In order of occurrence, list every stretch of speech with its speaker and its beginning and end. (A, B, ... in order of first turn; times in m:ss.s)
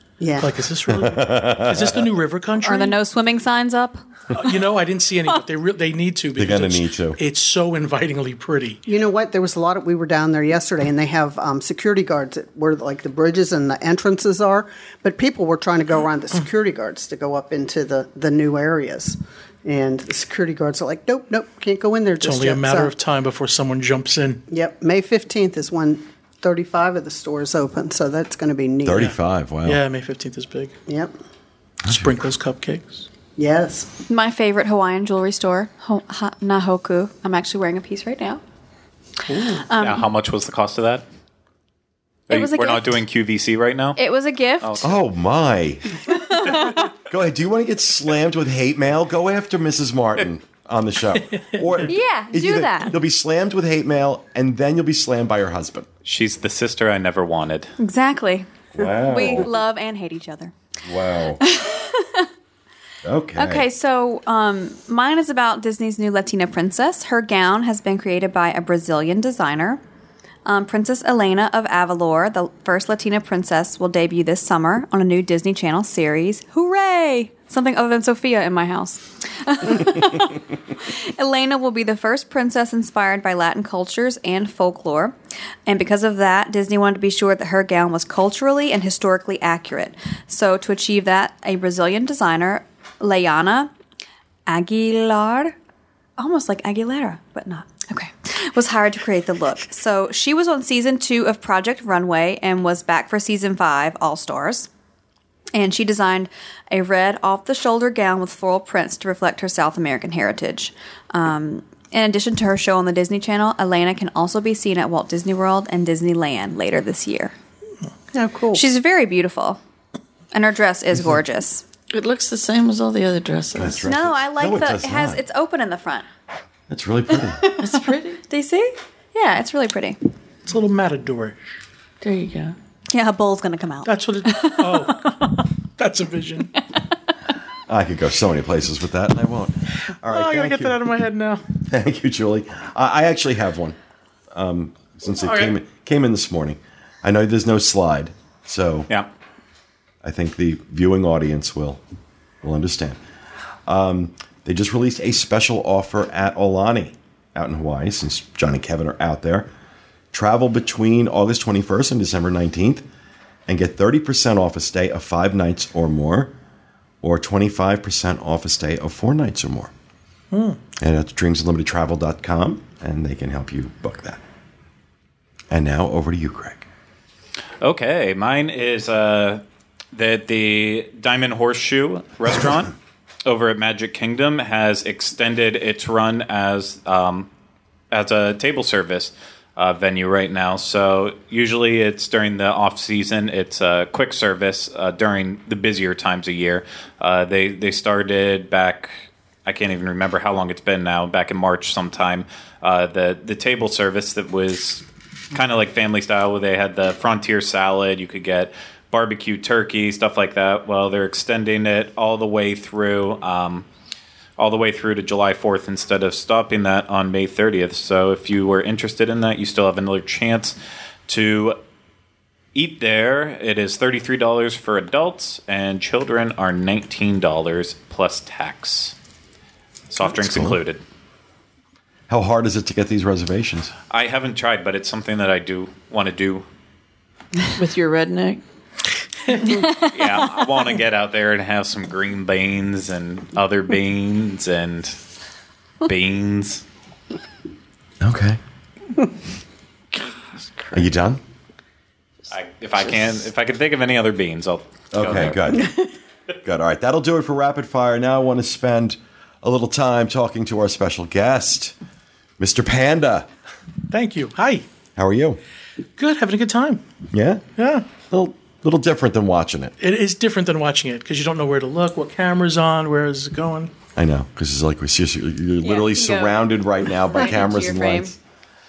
0:00.2-0:00.6 A
0:00.4-0:03.0 B
0:01.0-0:02.0 C
0:02.6-0:04.5 D
0:04.3-0:08.8 B
0:06.4-0:07.2 C
0:08.9-0:22.9 A
0:22.2-0:24.4 B
0:24.5-0:29.1 A
0:28.8-0:29.8 C
0:29.6-0:30.7 B
0:30.9-0:31.1 A
0:31.8-0:32.2 C
0:31.9-0:33.1 B
0:33.4-0:33.9 A
0:34.1-0:38.4 D
0:39.3-0:39.6 B
0:39.5-0:40.0 D
0:39.8-0:41.0 E
0:42.3-0:44.0 E
0:42.3-0:42.9 D
0:44.0-0:45.0 D
0:44.6-0:45.0 E
0:44.8-0:46.0 C
0:46.0-0:46.9 D
0:47.0-0:55.9 C
0:51.3-0:51.8 B
0:51.8-0:52.9 D
0:56.0-0:57.7 E
0:57.8-1:00.5 D
0:58.8-0:59.5 C
1:00.8-1:01.4 C
1:01.4-1:02.3 D
1:03.0-1:03.6 C
1:03.4-1:09.8 D
1:10.4-1:25.1 D
1:25.7-1:33.7 D
1:34.5-1:35.6 D
1:36.2-1:44.7 D
1:45.5-1:57.3 D
1:58.1-1:58.6 A
1:58.5-1:59.6 D
2:00.3-2:01.6 D
2:01.9-2:03.9 F
2:03.6-2:05.2 C
2:03.8-2:06.0 D
2:06.7-2:07.4 C
2:07.4-2:10.0 D
2:07.6-2:08.2 F
2:10.4-2:11.5 B
2:12.0-2:12.6 F
2:12.9-2:15.5 D
2:13.8-2:16.5 B
2:16.6-2:16.9 D
2:17.7-2:20.8 C
2:20.0-2:21.4 B
2:21.6-2:23.8 C
2:24.3-2:28.9 C
2:30.0-2:31.8 C
2:32.4-2:33.0 C
2:33.7-2:39.5 C
2:40.1-2:42.8 C
2:43.5-2:46.3 C
2:47.0-2:49.7 C
2:50.3-2:50.6 B
2:50.8-2:54.2 C
2:55.5-2:56.7 C
2:57.6-2:59.4 E
2:59.9-3:02.7 E
3:03.2-3:07.3 E
3:07.9-3:33.6 E
3:34.4-3:40.6 E
3:41.1-3:41.6 E
3:42.6-3:49.0 E
3:49.9-3:50.8 E
3:50.0-3:50.6 C
3:52.1-3:53.7 C
3:53.9-3:56.4 E
3:57.6-3:58.4 F
3:59.4-3:59.9 D
3:59.7-4:05.0 E
4:05.8-4:06.6 E
4:08.0-4:08.4 C
4:09.9-4:10.8 F
4:10.7-4:11.2 C
4:12.3-4:15.4 E
4:14.9-4:15.7 C
4:16.4-4:21.7 C
4:22.4-4:23.3 C
4:23.9-4:24.6 B
4:25.0-4:25.4 C
4:26.0-4:26.8 B
4:27.1-4:29.7 C
4:27.6-4:27.9 B
4:29.8-4:33.7 B
4:33.9-4:38.2 C
4:35.6-4:38.1 D